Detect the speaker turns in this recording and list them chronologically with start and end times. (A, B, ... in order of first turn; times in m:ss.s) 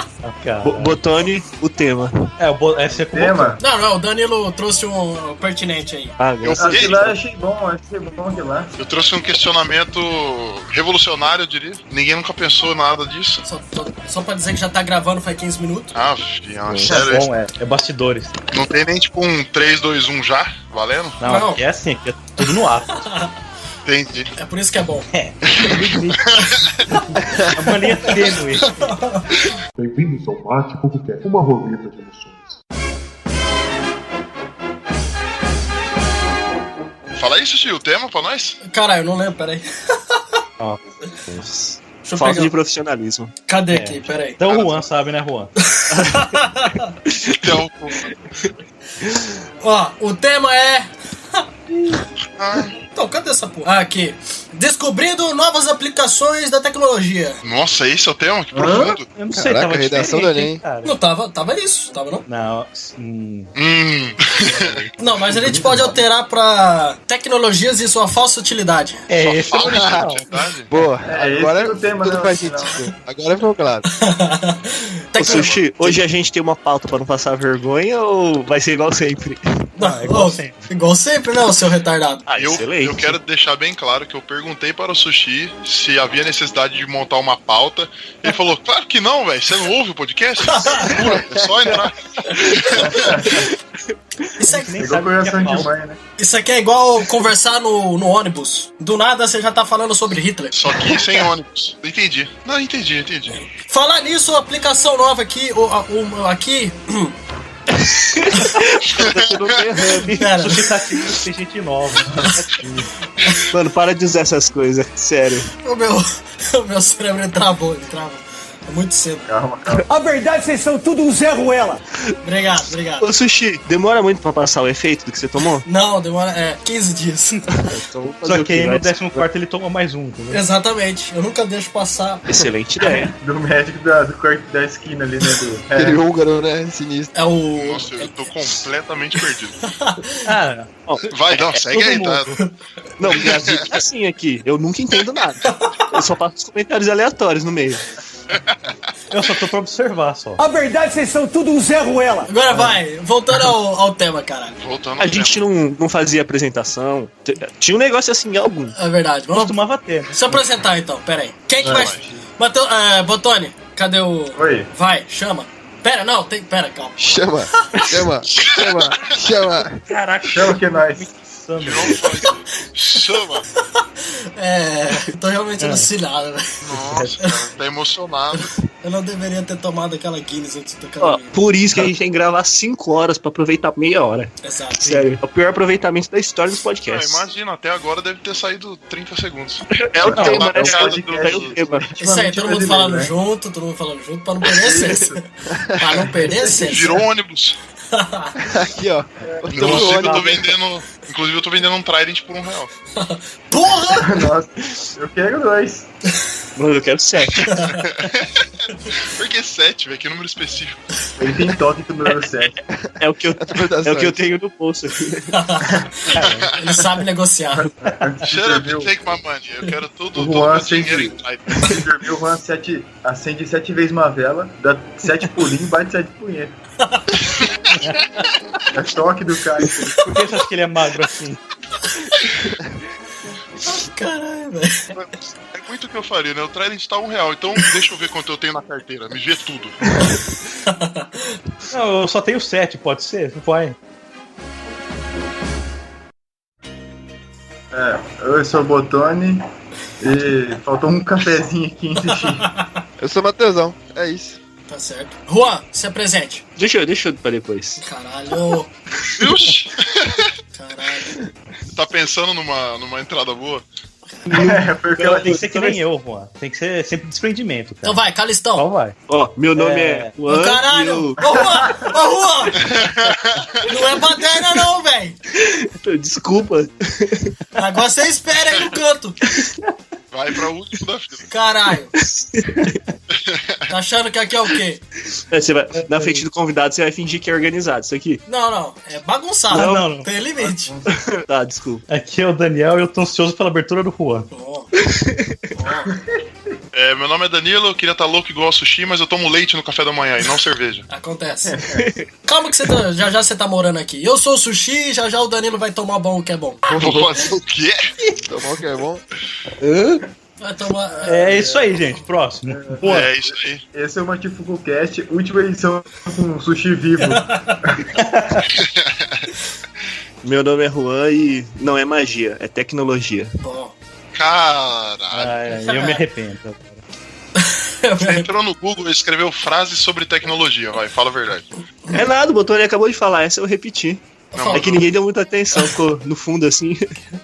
0:00.2-0:01.0 A
0:00.6-0:02.3 B
0:02.4-0:03.6 A
0:03.1-0:03.6 C
0:03.6-0:06.1 D
0:06.2-0:07.1 B
0:06.4-0:07.0 E
0:06.6-0:08.7 C
0:08.8-0:13.4 E
0:13.4-0:15.9 D
0:15.9-0:17.3 E
0:16.7-0:18.4 A
0:18.5-0:21.2 E
0:21.2-0:23.1 A
0:21.2-0:21.6 D
0:23.0-0:23.3 D
0:23.8-0:24.3 E
0:24.4-0:25.1 D
0:25.1-0:26.3 A
0:25.5-0:26.6 E
0:26.5-0:27.2 D
0:27.1-0:29.0 A
0:28.0-0:29.2 D
0:29.8-0:32.5 F
0:37.1-0:38.6 E
0:38.6-0:40.4 D
0:40.6-0:41.7 A
0:42.0-0:42.5 D
0:42.1-0:43.3 B
0:43.5-0:44.4 D
0:43.7-0:45.5 A
0:44.5-0:44.8 E
0:45.7-0:46.9 D
0:45.9-0:46.3 B
0:47.1-0:47.5 B
0:47.3-0:48.2 E
0:49.6-0:51.4 D
0:52.4-0:52.7 E
0:52.9-0:57.4 D
0:57.4-0:59.1 E
0:58.5-0:59.0 C
0:59.1-1:00.9 A
0:59.3-1:00.6 G
1:00.8-1:02.2 D
1:02.3-1:03.5 A
1:03.5-1:04.8 E
1:04.3-1:05.9 A
1:05.0-1:09.0 D
1:05.4-1:05.9 C
1:09.1-1:10.3 A
1:09.2-1:10.7 E
1:09.6-1:10.0 G
1:10.7-1:13.9 G
1:11.0-1:12.8 C
1:14.0-1:16.0 D
1:15.2-1:19.4 B
1:15.3-1:15.6 E
1:19.8-1:22.2 D
1:19.8-1:20.7 A
1:22.3-1:23.2 B
1:22.4-1:33.2 E
1:30.5-1:30.9 D
1:32.3-1:32.7 D
1:32.8-1:33.5 C
1:34.4-1:34.9 D
1:34.4-1:35.7 A
1:34.8-1:36.0 C
1:36.2-1:40.9 D
1:40.5-1:43.4 E
1:43.6-1:47.1 D
1:47.8-1:50.2 B
1:48.9-1:49.3 E
1:50.0-1:52.9 A
1:50.1-1:50.7 D
1:53.4-1:55.5 B
1:55.6-1:59.3 D
1:59.3-1:59.8 C
1:59.9-2:01.8 H
2:02.2-2:03.1 D
2:03.0-2:05.6 B
2:05.6-2:07.6 D
2:07.7-2:09.2 B
2:08.2-2:10.4 A
2:10.3-2:12.2 D
2:12.3-2:13.1 B
2:12.8-2:16.0 C
2:15.7-2:17.1 G
2:17.1-2:18.2 D
2:17.6-2:19.6 E
2:19.7-2:20.2 D
2:20.2-2:22.4 A
2:20.9-2:21.6 B
2:21.1-2:22.3 E
2:23.0-2:27.8 B
2:23.2-2:23.7 E
2:25.4-2:25.9 D
2:28.3-2:28.7 E
2:29.1-2:30.4 A
2:30.4-2:32.3 H
2:32.3-2:34.6 D
2:32.5-2:32.8 A
2:34.6-2:35.4 E
2:35.0-2:38.7 B
2:38.8-2:39.6 D
2:39.3-2:40.2 A
2:40.1-2:47.0 D
2:41.6-2:42.2 C
2:41.7-2:42.0 E
2:44.4-2:44.7 C
2:47.0-2:49.8 G
2:48.3-2:49.2 E
2:49.9-2:52.1 A
2:50.2-2:51.1 C
2:51.6-2:53.4 E
2:53.6-2:56.4 D
2:55.6-2:55.9 A
2:56.6-2:58.5 E
2:56.7-2:57.2 A
2:58.3-3:01.3 D
3:01.0-3:04.3 B
3:04.4-3:04.8 D
3:04.8-3:07.2 B
3:06.9-3:11.6 E
3:09.7-3:11.9 B
3:10.0-3:13.1 C
3:12.0-3:17.0 D
3:14.5-3:15.2 C
3:15.6-3:15.8 G
3:15.9-3:16.6 C
3:16.5-3:17.6 E
3:17.9-3:18.3 D
3:18.4-3:20.4 G
3:19.2-3:19.7 C
3:19.5-3:22.7 E
3:19.6-3:20.5 A
3:23.0-3:24.2 D
3:23.9-3:25.9 C
3:26.6-3:27.6 B
3:27.5-3:27.8 D
3:27.8-3:31.3 E
3:31.2-3:32.6 C
3:32.7-3:34.3 G
3:33.0-3:35.4 B
3:35.3-3:37.7 D
3:36.1-3:36.5 A
3:36.2-3:36.7 E
3:37.8-3:38.9 C
3:38.2-3:41.8 E
3:40.1-3:46.5 C
3:46.8-3:47.2 D
3:47.3-3:47.7 E
3:47.8-3:48.0 A
3:48.7-3:50.0 C
3:50.0-3:51.4 A
3:51.9-3:52.4 D
3:53.6-3:54.9 D
3:54.9-3:59.8 E
4:00.7-4:01.2 D
4:01.7-4:03.8 A
4:07.7-4:09.4 C
4:10.0-4:12.5 C
4:13.0-4:14.4 G
4:14.7-4:16.4 D
4:16.6-4:17.8 B
4:17.8-4:18.7 D
4:19.1-4:20.3 E
4:20.5-4:21.2 D
4:21.7-4:23.6 E
4:24.3-4:25.8 B
4:24.3-4:25.4 C
4:25.1-4:28.0 A
4:27.8-4:28.7 D
4:28.5-4:29.0 A
4:29.1-4:31.4 B
4:29.5-4:30.1 A
4:30.3-4:32.6 D
4:31.3-4:32.0 C
4:32.6-4:33.7 E
4:33.6-4:35.2 D
4:35.3-4:37.3 B
4:37.6-4:39.2 D
4:40.1-4:41.3 E
4:41.3-4:41.9 D
4:41.9-4:42.8 B
4:43.1-4:43.6 E
4:43.7-4:44.8 D
4:45.3-4:48.2 B
4:45.8-4:46.2 A
4:48.3-4:50.7 D
4:49.5-4:50.1 A
4:49.5-4:49.8 B
4:50.4-4:51.0 C
4:50.9-4:51.8 B
4:51.9-4:54.3 A
4:54.3-4:54.7 D
4:54.8-4:55.5 B
4:55.6-4:55.9 D
4:55.6-4:56.1 C
4:56.7-5:00.8 E
5:00.9-5:01.6 D
5:01.5-5:01.8 C
5:01.7-5:02.0 B
5:02.2-5:06.6 D
5:06.7-5:07.8 E
5:08.2-5:09.0 G
5:09.6-5:10.0 A
5:10.4-5:11.7 D
5:11.0-5:11.6 C
5:11.0-5:13.1 A
5:12.5-5:12.9 C
5:12.8-5:13.6 E
5:13.7-5:17.9 C
5:17.1-5:17.6 D
5:18.0-5:18.5 A
5:18.5-5:19.3 E
5:20.2-5:23.3 B
5:23.4-5:23.7 D
5:24.1-5:25.4 E
5:25.1-5:26.8 A
5:25.6-5:26.0 D
5:27.4-5:28.3 D
5:28.0-5:31.5 E
5:31.9-5:36.9 B
5:34.3-5:34.8 D
5:34.3-5:34.9 E